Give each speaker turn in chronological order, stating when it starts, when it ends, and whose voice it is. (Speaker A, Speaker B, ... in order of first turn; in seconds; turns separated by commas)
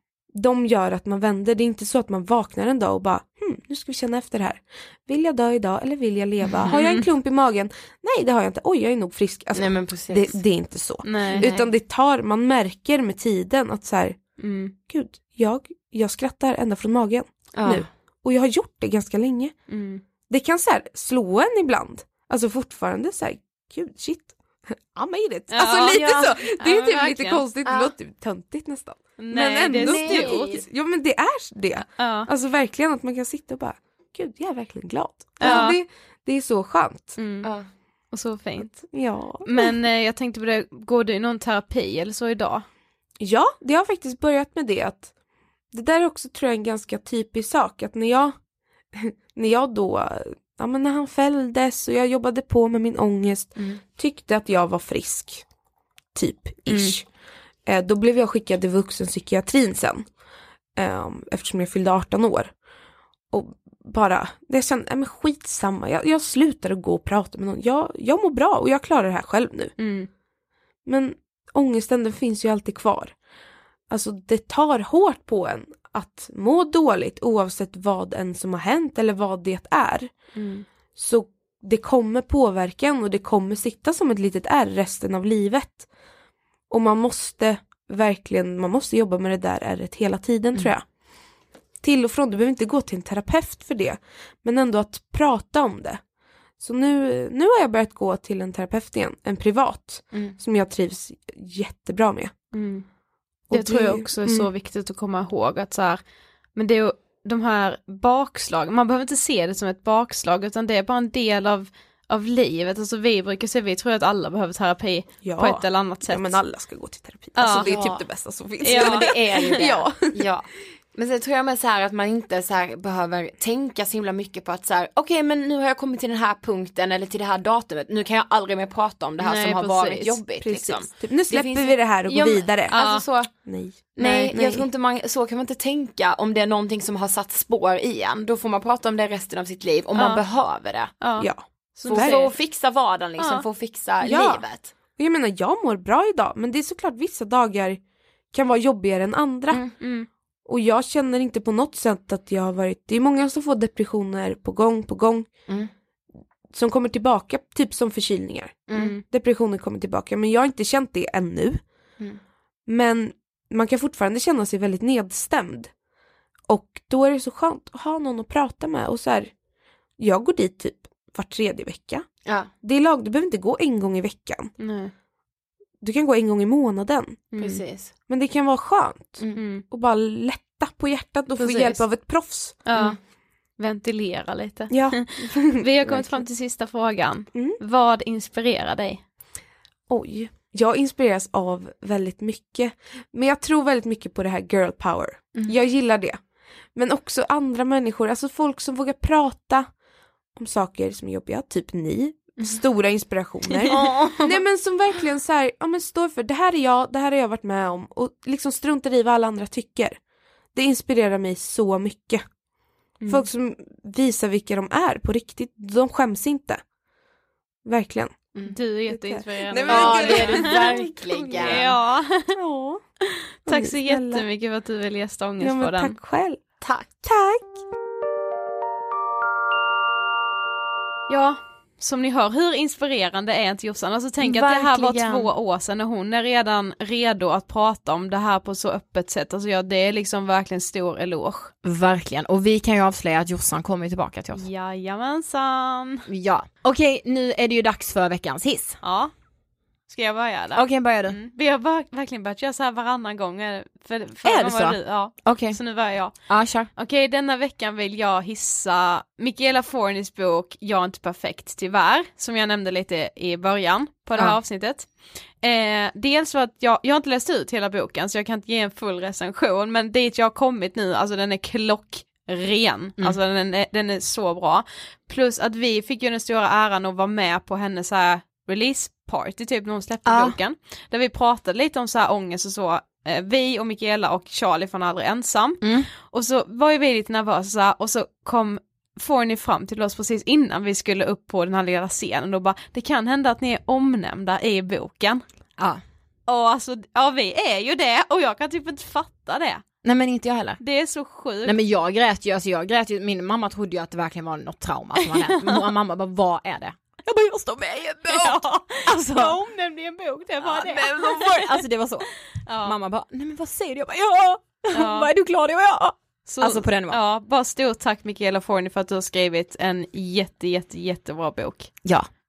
Speaker A: 0.3-14.2, Speaker B: 6.7-7.0, Speaker C: 9.6-10.4, Speaker B: 11.0-11.4, Speaker C: 11.3-11.7, Speaker B: 14.4-14.7, Speaker A: 14.9-19.6, Speaker C: 17.5-17.9, Speaker B: 19.7-20.0, Speaker A: 20.3-37.2, Speaker B: 25.5-27.4, Speaker C: 27.6-27.9, Speaker B: 29.2-30.6, Speaker C: 29.8-30.6, Speaker B: 32.0-32.3, Speaker B: 35.4-35.8, Speaker C: 35.4-35.7, Speaker B: 37.2-37.5, Speaker B: 38.1-38.9, Speaker A: 38.8-39.7, Speaker B: 39.4-42.6, Speaker A: 43.2-45.1, Speaker A: 45.7-48.4, Speaker A: 48.9-55.5, Speaker A: 56.1-57.1, Speaker B: 56.7-57.0, Speaker A: 57.7-60.1, Speaker A: 60.8-62.5, Speaker A: 63.3-69.8, Speaker B: 69.8-70.1, Speaker A: 70.9-73.2, Speaker A: 73.9-80.1, Speaker B: 80.4-80.7, Speaker A: 81.0-85.9, Speaker A: 86.7-90.8, Speaker A: 91.8-96.0, Speaker A: 96.6-102.3, Speaker B: 102.5-102.9, Speaker A: 103.5-104.5, Speaker B: 103.5-106.0, Speaker B: 106.5-116.4, Speaker A: 115.2-120.3, Speaker B: 117.4-117.6, Speaker C: 117.5-118.0, Speaker B: 118.6-119.7, Speaker C: 118.7-133.3, Speaker B: 129.2-130.2, Speaker A: 130.4-132.7, Speaker B: 132.7-133.1, Speaker A: 133.4-134.7, Speaker C: 134.0-140.9, Speaker B: 134.0-134.3, Speaker B: 140.0-140.2, Speaker B: 141.0-142.4, Speaker A: 141.2-142.3, Speaker C: 141.9-144.7, Speaker B: 143.2-143.5, Speaker A: 144.0-144.4, Speaker A: 145.0-147.8, Speaker A: 148.3-149.7, Speaker B: 149.8-150.1, Speaker A: 150.5-155.3, Speaker A: 156.5-161.6, Speaker C: 158.7-159.0, Speaker B: 158.7-159.0, Speaker A: 162.7-165.7, Speaker A: 166.5-169.3, Speaker A: 170.0-172.1, Speaker C: 172.3-172.5, Speaker A: 172.6-174.5, Speaker B: 174.6-174.9, Speaker A: 175.8-177.2, Speaker B: 177.3-177.6, Speaker C: 177.4-177.9, Speaker A: 178.1-182.7, Speaker B: 179.4-179.7, Speaker B: 181.4-181.8, Speaker B: 182.7-183.0, Speaker B: 183.6-189.0, Speaker A: 184.7-186.2, Speaker A: 189.9-196.2, Speaker A: 196.8-199.7, Speaker A: 200.4-210.0, Speaker C: 203.7-204.3, Speaker A: 210.6-212.2, Speaker A: 213.1-216.6, Speaker A: 217.7-218.1, Speaker B: 218.4-220.8, Speaker A: 218.9-222.8, Speaker C: 219.7-221.7, Speaker B: 221.4-222.4, Speaker B: 223.5-225.9, Speaker A: 223.5-224.2, Speaker A: 225.4-226.4, Speaker C: 226.6-226.9, Speaker A: 227.0-227.6, Speaker B: 231.1-241.5, Speaker C: 234.2-235.3, Speaker C: 241.6-244.4, Speaker B: 244.3-246.1, Speaker C: 246.1-248.8, Speaker B: 248.8-249.1, Speaker B: 249.9-264.9, Speaker C: 250.6-251.2, Speaker C: 254.2-255.6, Speaker C: 256.3-256.7, Speaker B: 265.4-295.2, Speaker C: 280.1-280.4, Speaker C: 285.6-285.9, Speaker B: 296.3-299.6, Speaker C: 299.8-300.6, Speaker B: 300.6-301.6, Speaker C: 301.4-309.4, Speaker B: 305.0-305.7, Speaker B: 308.0-311.6, Speaker C: 310.4-312.1, Speaker B: 312.5-312.8, Speaker C: 312.6-317.0, Speaker B: 314.7-315.1, Speaker B: 316.3-321.7